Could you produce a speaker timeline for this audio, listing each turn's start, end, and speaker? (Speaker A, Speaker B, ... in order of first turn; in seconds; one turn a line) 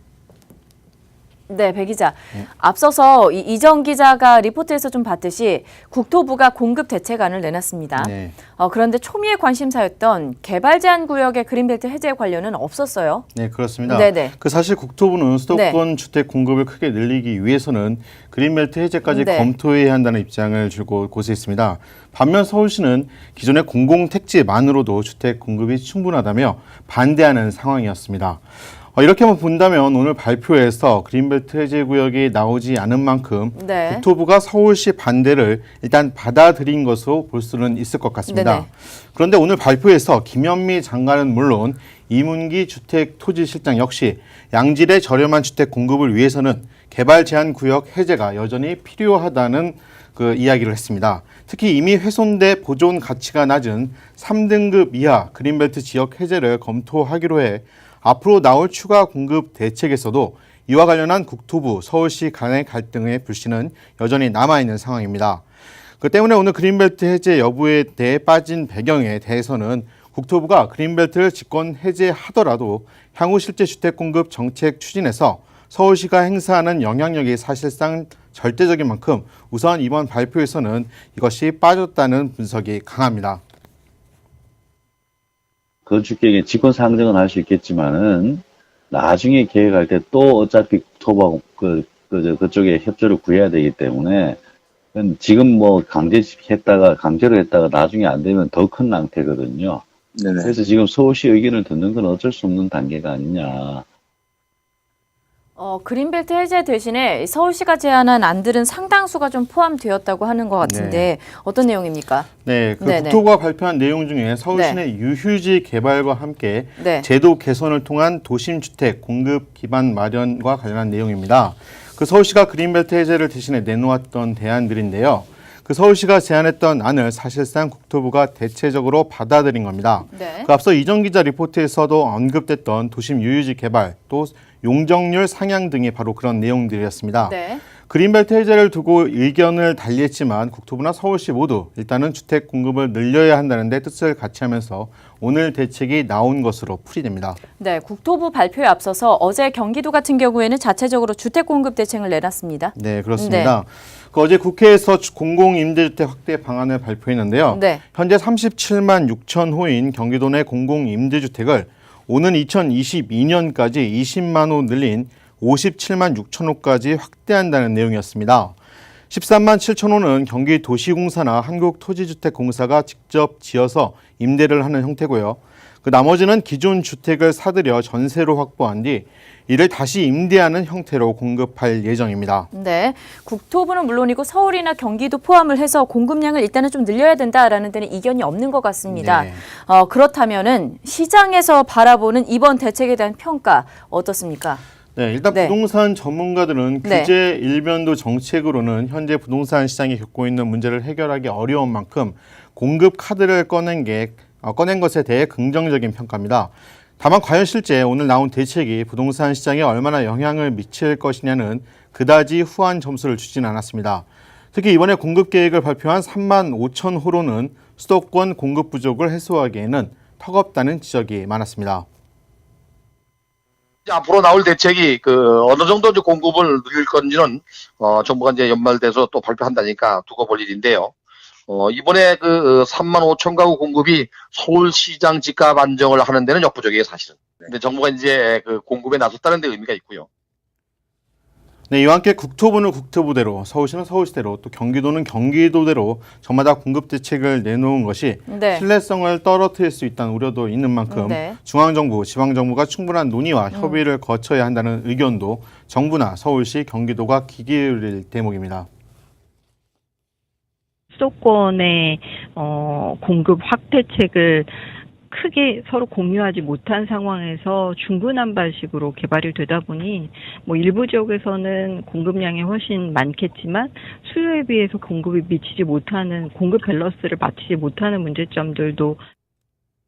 Speaker A: 1.5-13.2
Speaker B: 8.0-8.3
Speaker B: 13.3-28.4
Speaker A: 13.8-14.3
Speaker A: 15.5-15.8
Speaker A: 19.1-19.5
Speaker B: 28.9-65.4
Speaker A: 33.5-34.0
Speaker A: 38.3-38.7
Speaker B: 66.0-83.4
Speaker C: 85.8-94.4
Speaker C: 94.9-103.8
Speaker A: 105.5-112.3
Speaker B: 110.6-111.1
Speaker B: 112.4-147.4
Speaker A: 112.8-113.2
Speaker A: 114.5-114.8
Speaker A: 116.8-117.0
Speaker A: 130.1-130.5
Speaker A: 137.2-137.6
Speaker A: 147.6-153.5
Speaker B: 152.7-168.5
Speaker A: 157.5-157.8
Speaker B: 169.1-182.5
Speaker A: 182.5-194.6
Speaker B: 188.9-189.4
Speaker B: 194.9-221.9
Speaker A: 196.8-197.1
Speaker D: 223.9-230.9
Speaker D: 231.5-240.1
Speaker B: 241.7-258.7
Speaker A: 248.3-248.7
Speaker A: 250.9-251.4
Speaker A: 253.5-253.8
Speaker E: 260.9-264.5
Speaker E: 265.1-279.0